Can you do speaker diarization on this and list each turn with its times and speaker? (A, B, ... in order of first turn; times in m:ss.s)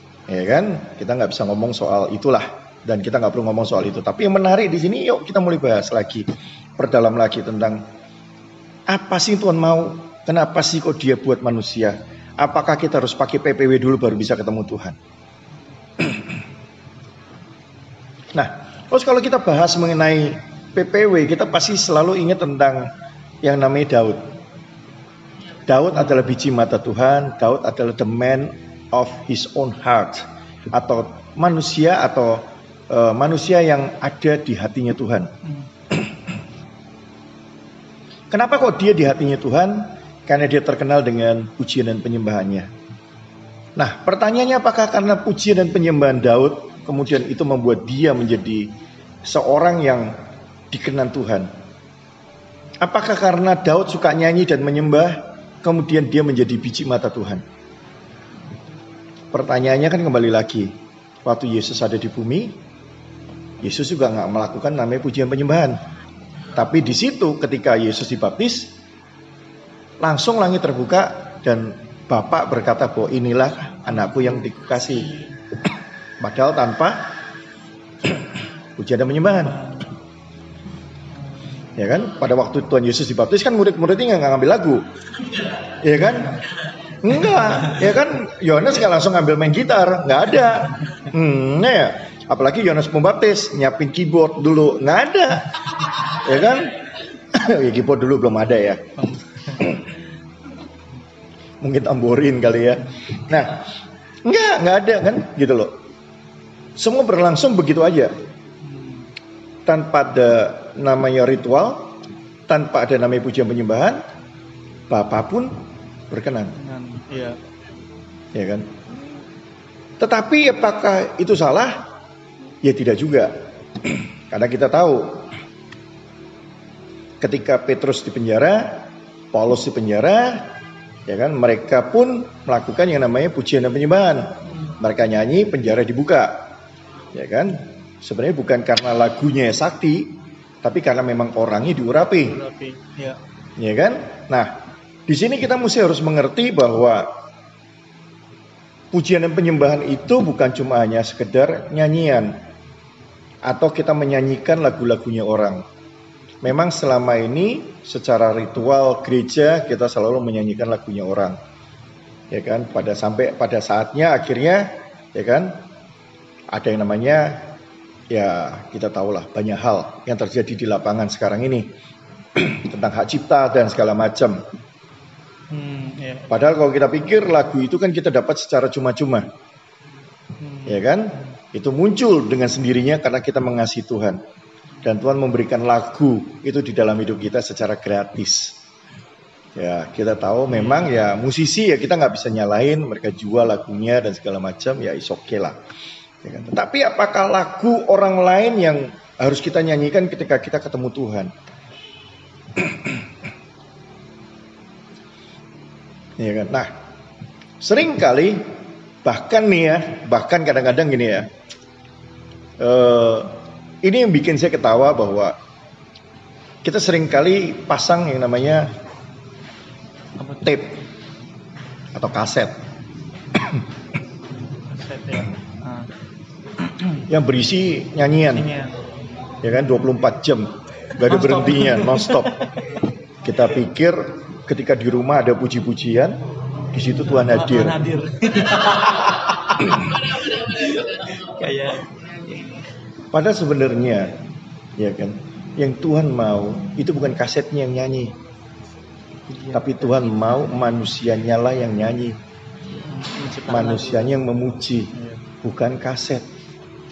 0:00.3-0:07.8 A
0:08.9-0:15.0 A
0:18.3-0:22.9 A
0:23.4-0:24.3 A
0:25.7-0:35.3 A
0:38.3-0:42.7 A
0:43.8-0:50.1 A
0:50.7-0:51.5 A
0:52.8-0:57.4 A
0:59.3-1:02.6 A
1:03.6-1:05.8 A
1:06.5-1:08.7 A
1:10.0-1:15.1 A
1:16.2-1:17.2 A
1:18.8-1:19.6 A
1:21.7-1:24.9 A
1:25.8-1:26.4 A
1:27.0-1:36.8 A
1:37.3-1:38.9 A
1:39.0-1:39.7 B
1:41.6-1:43.6 A
1:44.2-1:45.7 A
1:46.8-1:48.1 A
1:48.6-1:49.1 B
1:49.6-1:54.0 A
1:54.9-1:56.6 A
1:56.6-1:57.4 B
1:58.3-1:58.7 A
2:00.0-2:01.9 A
2:02.6-2:05.3 A
2:07.2-2:10.5 A
2:11.0-2:16.5 A
2:17.1-2:22.4 A
2:22.3-2:23.2 B
2:23.6-2:27.1 A
2:28.9-2:32.4 A
2:33.4-2:35.6 A
2:36.4-2:41.4 A
2:42.3-2:45.6 A
2:46.5-2:47.5 A
2:48.1-2:51.7 A
2:52.3-2:54.4 A
2:55.5-2:56.3 B
2:56.3-2:59.2 A
3:00.4-3:00.8 B
3:00.6-3:04.2 A
3:04.8-3:08.6 A
3:09.6-3:15.6 A
3:16.2-3:21.3 A
3:26.2-3:26.7 A
3:27.6-3:28.5 A
3:29.0-3:31.3 A
3:32.6-3:35.4 A
3:36.6-3:38.7 A
3:40.4-3:40.8 A
3:41.9-3:42.6 A
3:44.7-3:45.9 B
3:47.1-3:48.5 A
3:48.3-3:48.7 B
3:49.4-3:52.4 A
3:51.0-3:52.3 B
3:53.2-3:57.9 A
3:57.3-4:02.6 B
4:03.1-4:04.2 A
4:04.8-4:08.2 A
4:09.3-4:09.7 B
4:09.5-4:12.2 A
4:12.8-4:14.2 B
4:13.5-4:16.2 A
4:14.9-4:15.2 B